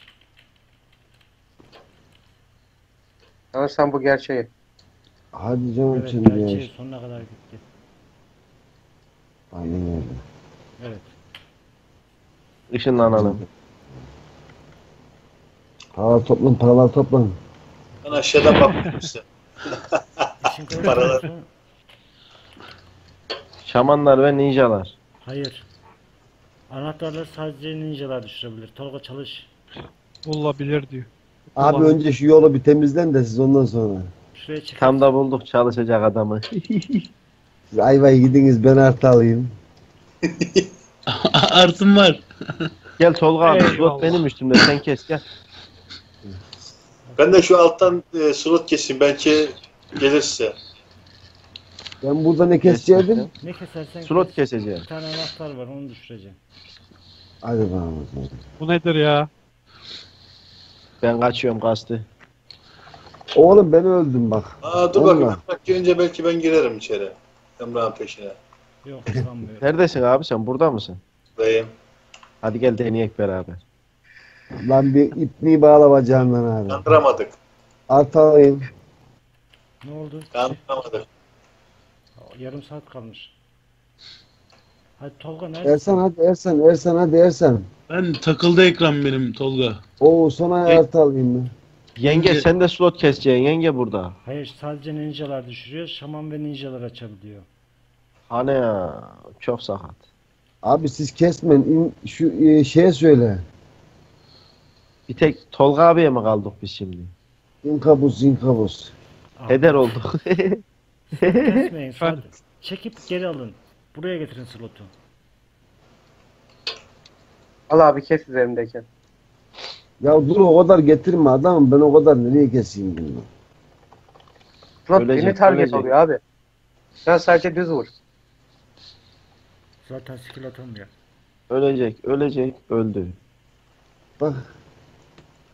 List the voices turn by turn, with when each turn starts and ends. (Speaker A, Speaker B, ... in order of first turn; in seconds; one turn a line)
Speaker A: 3.5-4.5
Speaker B: 5.3-6.7
Speaker C: 5.9-7.6
Speaker B: 9.5-10.2
Speaker C: 10.8-11.1
Speaker D: 12.7-13.4
Speaker B: 13.0-13.5
Speaker B: 15.9-17.4
Speaker E: 18.0-20.3
Speaker F: 18.4-19.1
Speaker C: 20.4-21.5
Speaker E: 20.8-21.2
Speaker D: 23.6-24.9
Speaker C: 25.2-25.7
Speaker C: 26.7-29.5
Speaker F: 30.2-32.0
Speaker B: 31.6-34.1
Speaker C: 34.4-35.0
Speaker D: 34.8-37.1
Speaker B: 37.7-39.5
Speaker E: 40.2-40.7
Speaker G: 41.1-42.2
Speaker D: 43.0-45.2
Speaker F: 43.4-44.3
Speaker E: 47.2-50.5
Speaker B: 52.0-53.3
Speaker D: 52.6-53.3
Speaker C: 53.4-56.4
Speaker D: 54.1-54.9
Speaker B: 57.4-58.4
Speaker F: 58.6-59.3
Speaker D: 61.0-62.0
Speaker B: 63.3-65.4
Speaker E: 64.6-68.4
Speaker C: 68.8-69.6
Speaker D: 69.6-71.0
Speaker E: 71.4-71.7
Speaker D: 72.4-73.6
Speaker B: 74.6-77.0
Speaker E: 76.7-77.4
Speaker B: 77.9-78.7
Speaker C: 79.8-80.6
Speaker E: 80.3-81.0
Speaker C: 82.2-83.3
Speaker C: 85.0-86.0
Speaker B: 85.6-87.7
Speaker G: 87.9-89.8
Speaker B: 90.0-91.5
Speaker D: 92.0-94.2
Speaker G: 92.1-92.5
Speaker C: 94.2-97.5
Speaker D: 98.3-100.0
Speaker B: 100.6-103.4
Speaker D: 105.1-107.1
Speaker B: 107.6-108.9
Speaker C: 109.4-110.1
Speaker D: 109.5-110.6
Speaker C: 111.1-114.9
Speaker D: 111.2-111.7
Speaker A: 117.7-118.8
Speaker B: 120.0-123.3
Speaker A: 124.9-126.2
Speaker D: 125.0-125.9
Speaker A: 127.0-127.9
Speaker C: 129.8-130.9
Speaker D: 131.5-133.2
Speaker B: 134.2-134.5